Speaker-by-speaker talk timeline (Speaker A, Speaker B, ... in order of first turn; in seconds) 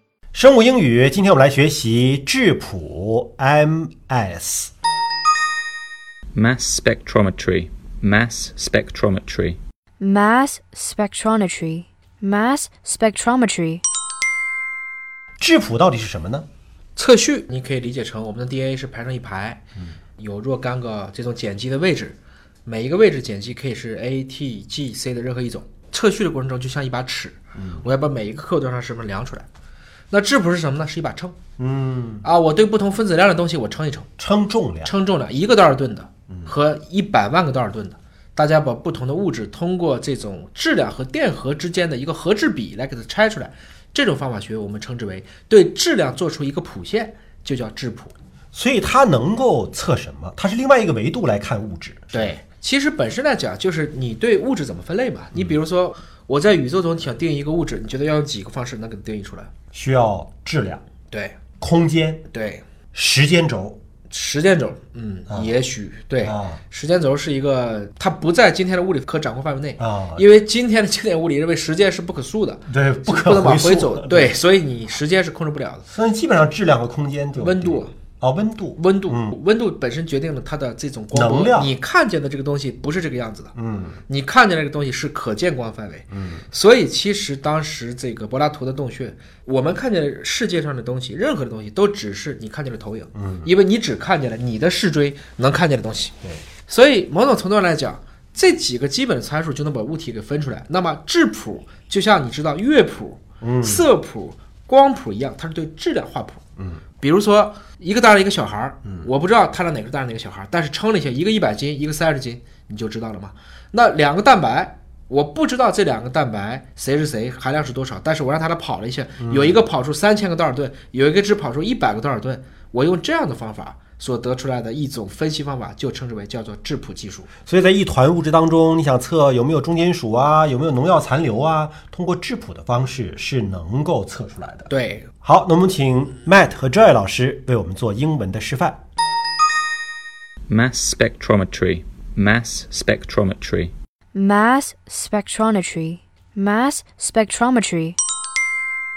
Speaker A: 0.3-4.7, 15.4-16.5, 27.6-27.9, 31.6-32.3, 34.2-34.9, 48.5-52.3, 59.7-60.8, 61.6-62.2, 62.9-63.8, 66.2-66.6, 69.8-70.2, 72.7-74.3, 75.9-79.3, 81.1-81.7, 83.5-84.0, 86.1-86.4, 93.1-93.5, 103.4-103.8, 106.6-106.8, 119.2-119.6, 127.4-134.7, 135.2-138.8
Speaker B: 6.3-9.6, 140.5-143.7
Speaker C: 10.0-13.8, 144.1-148.0
Speaker D: 16.9-29.5, 30.1-31.4, 32.2-34.1, 34.8-48.1, 52.1-59.5, 61.1-61.5, 62.3-62.6, 64.1-75.8, 77.4-78.0, 78.8-83.5, 84.1-127.3, 134.7-135.1